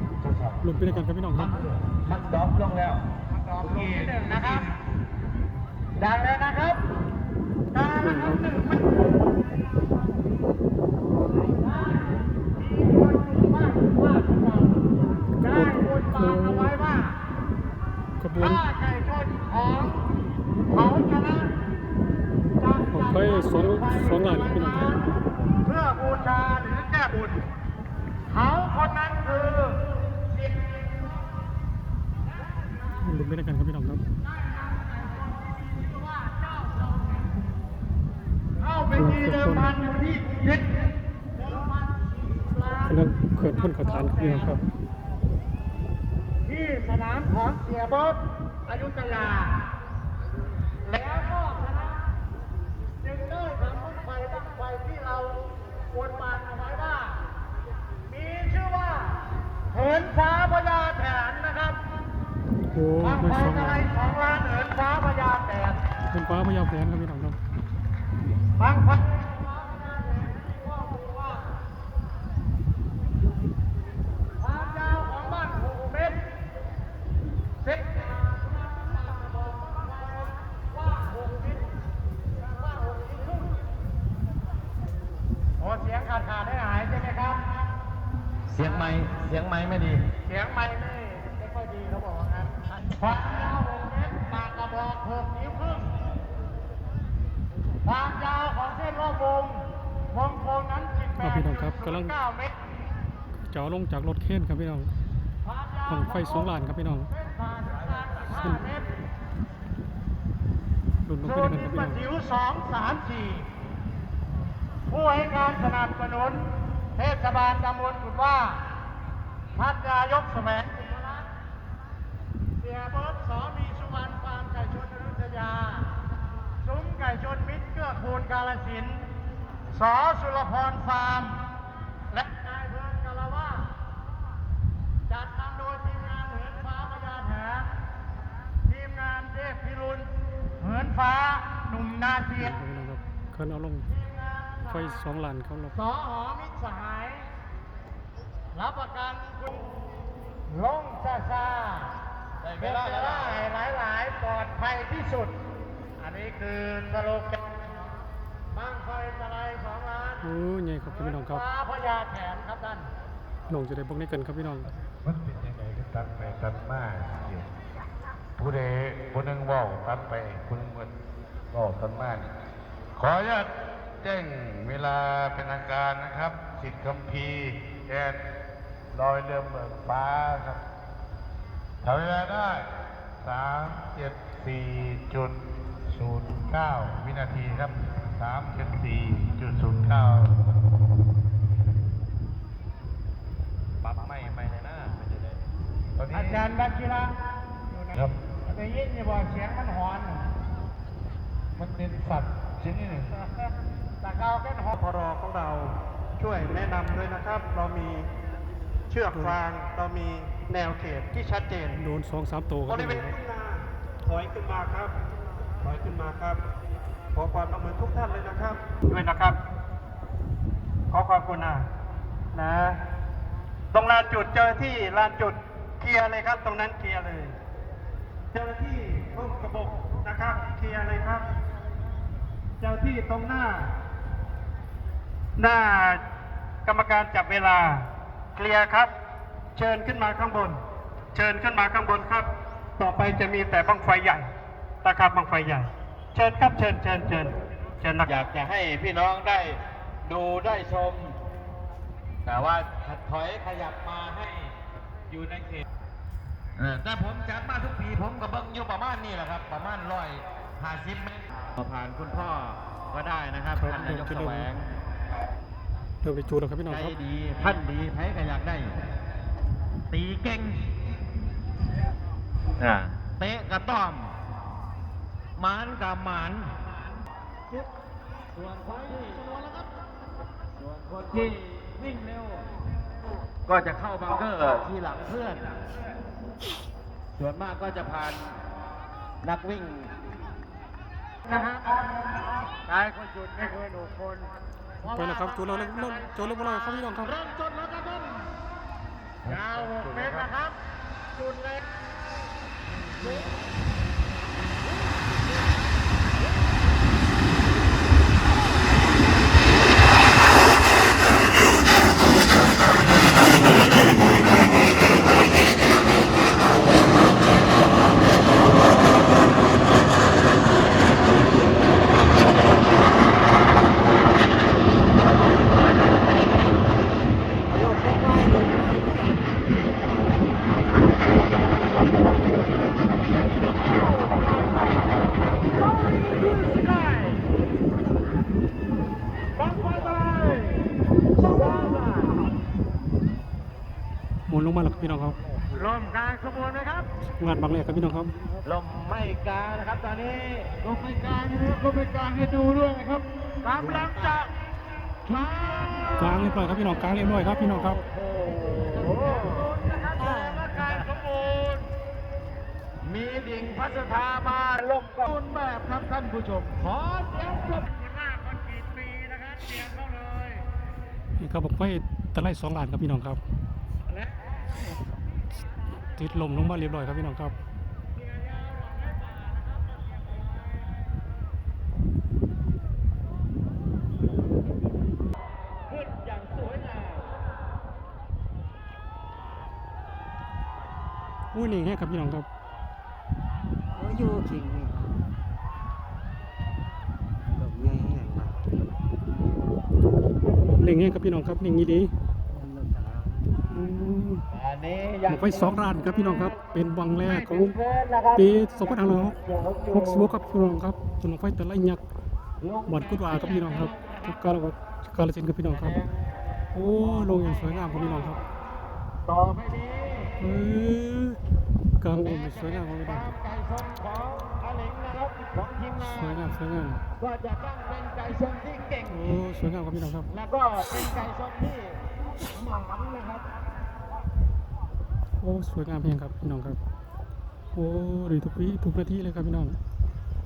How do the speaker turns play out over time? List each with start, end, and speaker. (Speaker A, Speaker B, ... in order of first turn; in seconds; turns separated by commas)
Speaker A: 0.2-0.7, Speaker B: 0.6-1.6, Speaker A: 1.9-3.0, Speaker C: 3.5-4.7, Speaker A: 3.6-4.6, Speaker C: 6.0-6.8, Speaker C: 7.7-9.2, Speaker B: 8.0-8.4, Speaker C: 12.4-14.9, Speaker C: 15.4-17.2, Speaker B: 15.4-16.7, Speaker B: 18.2-18.6, Speaker C: 18.4-20.1, Speaker C: 20.7-21.5, Speaker C: 22.6-25.0, Speaker B: 22.9-24.9, Speaker C: 25.6-27.4, Speaker C: 28.3-30.8, Speaker B: 33.0-34.0, Speaker C: 34.4-37.2, Speaker C: 38.6-43.0, Speaker B: 38.9-39.8, Speaker B: 42.9-44.6, Speaker C: 43.6-44.5, Speaker C: 46.5-49.6, Speaker C: 50.8-52.0, Speaker C: 53.0-57.2, Speaker C: 58.1-61.8, Speaker B: 62.7-63.9, Speaker C: 63.0-65.8, Speaker B: 66.1-67.4, Speaker C: 68.6-71.6, Speaker C: 74.4-76.2, Speaker C: 77.6-81.7, Speaker C: 82.5-83.6, Speaker C: 85.6-87.5, Speaker A: 88.5-90.1, Speaker C: 90.2-95.9, Speaker C: 97.8-102.6, Speaker B: 101.2-102.1, Speaker B: 103.5-104.9, Speaker C: 105.4-106.5, Speaker B: 105.9-107.1, Speaker C: 107.1-108.9, Speaker B: 111.1-112.0, Speaker C: 111.2-113.5, Speaker C: 114.9-118.7, Speaker C: 119.5-121.3, Speaker C: 122.6-125.9, Speaker C: 126.6-129.0, Speaker C: 129.7-131.4, Speaker C: 132.1-133.7, Speaker C: 135.1-137.7, Speaker C: 138.7-142.6, Speaker B: 142.4-143.9, Speaker C: 143.9-145.0, Speaker B: 144.7-145.7, Speaker C: 145.7-147.3, Speaker C: 148.5-149.7, Speaker C: 150.5-151.9, Speaker A: 152.4-153.4, Speaker C: 152.6-155.4, Speaker C: 156.0-157.9, Speaker C: 158.5-160.2, Speaker B: 160.2-161.4, Speaker C: 160.9-162.9, Speaker B: 163.5-164.7, Speaker D: 165.0-167.5, Speaker D: 168.4-171.0, Speaker D: 171.5-172.3, Speaker D: 172.9-178.2, Speaker D: 178.9-180.6, Speaker D: 181.8-182.7, Speaker D: 183.2-190.5, Speaker A: 193.8-195.2, Speaker D: 196.0-196.5, Speaker C: 196.1-197.2, Speaker C: 198.4-200.3, Speaker D: 201.6-203.2, Speaker C: 204.0-204.8, Speaker E: 204.7-208.1, Speaker E: 208.9-211.8, Speaker B: 209.1-209.4, Speaker B: 211.8-213.2, Speaker E: 212.7-214.9, Speaker E: 215.6-216.4, Speaker E: 217.2-219.4, Speaker E: 220.9-221.7, Speaker E: 222.3-222.8, Speaker E: 223.7-227.3, Speaker E: 228.3-231.2, Speaker E: 232.6-233.7, Speaker E: 235.4-236.0, Speaker E: 236.7-238.9, Speaker E: 239.6-240.6, Speaker E: 241.2-244.3, Speaker E: 244.8-248.1, Speaker A: 248.1-251.2, Speaker A: 252.2-254.5, Speaker A: 255.1-255.6, Speaker A: 256.6-264.7, Speaker B: 263.5-264.5, Speaker B: 266.0-266.9, Speaker A: 266.7-268.8, Speaker A: 269.9-270.7, Speaker A: 272.6-274.1, Speaker A: 275.4-276.6, Speaker A: 278.3-279.4, Speaker A: 280.6-282.4, Speaker A: 283.5-285.6, Speaker A: 287.1-288.3, Speaker A: 289.2-289.9, Speaker C: 292.7-294.3, Speaker C: 294.8-296.9, Speaker B: 294.9-297.1, Speaker A: 297.1-298.1, Speaker D: 299.2-300.3, Speaker C: 299.3-300.6, Speaker C: 301.1-301.8, Speaker A: 335.9-337.1, Speaker A: 339.4-340.7, Speaker A: 341.2-342.2, Speaker B: 344.3-345.2, Speaker A: 345.5-346.8, Speaker B: 347.2-348.1, Speaker A: 348.4-354.2, Speaker C: 353.5-354.3, Speaker A: 355.1-356.5, Speaker B: 355.9-357.8, Speaker A: 357.1-361.6, Speaker C: 358.7-361.5, Speaker A: 362.8-367.6, Speaker C: 367.5-370.4, Speaker B: 371.2-373.2, Speaker B: 376.0-377.4, Speaker C: 377.9-379.8, Speaker A: 385.7-387.0, Speaker B: 391.3-392.3, Speaker F: 393.8-394.8, Speaker F: 397.3-398.3, Speaker B: 400.6-401.9, Speaker F: 402.3-403.3, Speaker B: 403.5-404.2, Speaker A: 404.3-405.6, Speaker B: 405.1-407.6, Speaker A: 407.0-410.1, Speaker B: 408.2-409.2, Speaker B: 409.7-411.8, Speaker A: 412.4-414.2, Speaker B: 412.7-415.8, Speaker A: 415.5-415.9, Speaker B: 416.5-418.2, Speaker A: 416.8-418.2, Speaker A: 419.1-420.2, Speaker B: 420.2-421.2, Speaker B: 421.8-423.1, Speaker A: 422.0-426.3, Speaker B: 425.8-426.8, Speaker A: 427.0-429.2, Speaker B: 428.9-430.1, Speaker A: 430.1-433.3, Speaker B: 435.2-436.6, Speaker B: 437.6-439.6